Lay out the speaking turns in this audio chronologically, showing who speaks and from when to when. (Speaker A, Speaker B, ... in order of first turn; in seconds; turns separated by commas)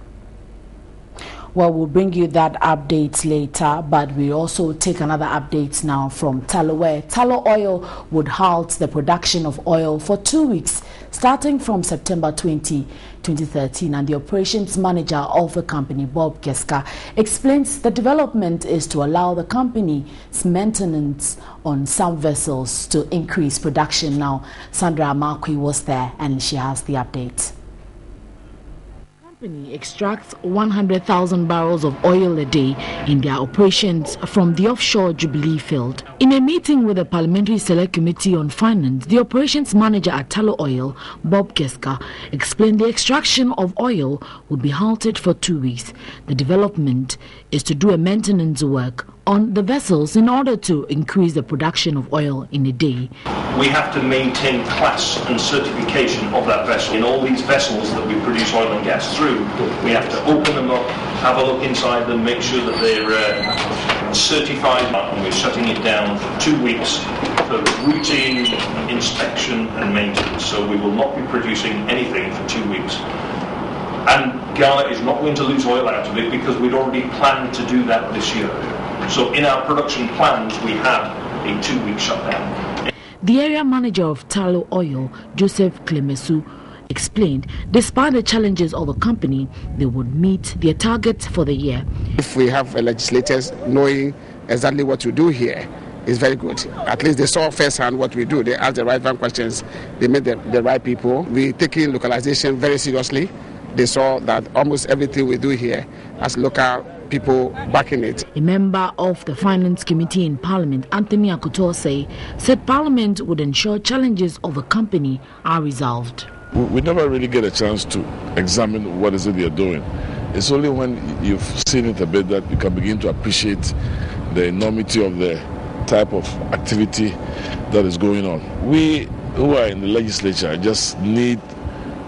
Speaker A: 1.5-27.5, Speaker A: 29.2-53.1, Speaker B: 53.5-73.0, Speaker B: 74.0-82.6, Speaker A: 83.2-91.8, Speaker C: 92.2-108.2, Speaker A: 108.3-116.3, Speaker D: 116.5-123.7, Speaker D: 124.3-127.2, Speaker D: 127.7-131.4